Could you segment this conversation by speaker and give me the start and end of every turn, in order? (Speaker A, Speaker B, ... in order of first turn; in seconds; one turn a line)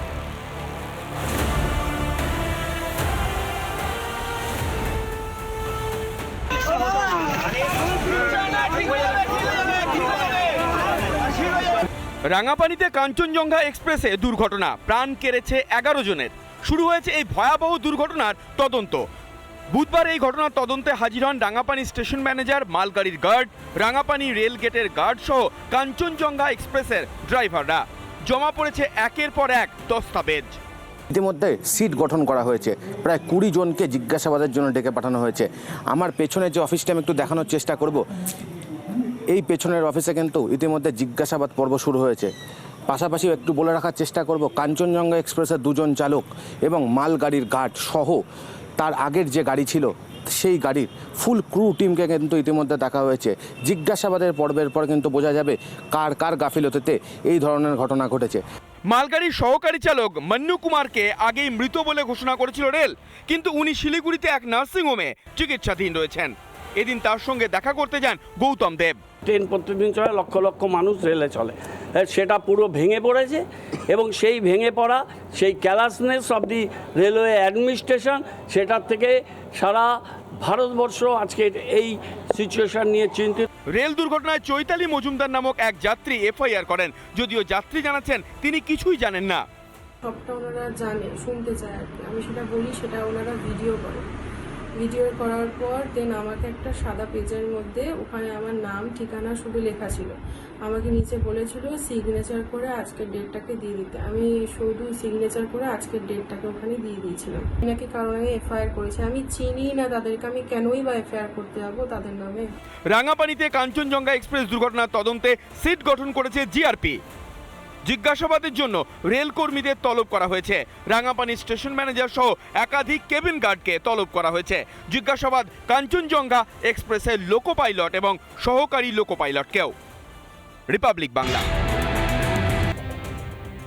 Speaker A: 12.2-19.1
Speaker A: 19.7-30.6
Speaker B: 31.1-38.0
Speaker B: 39.3-42.3
Speaker B: 42.9-48.2
Speaker B: 48.8-58.4
Speaker A: 58.9-69.0
Speaker C: 69.2-83.5
Speaker A: 83.7-89.4
Speaker D: 90.0-94.0
Speaker D: 94.8-112.5
Speaker A: 112.9-117.0
Speaker A: 117.9-129.7
Speaker A: 130.7-131.4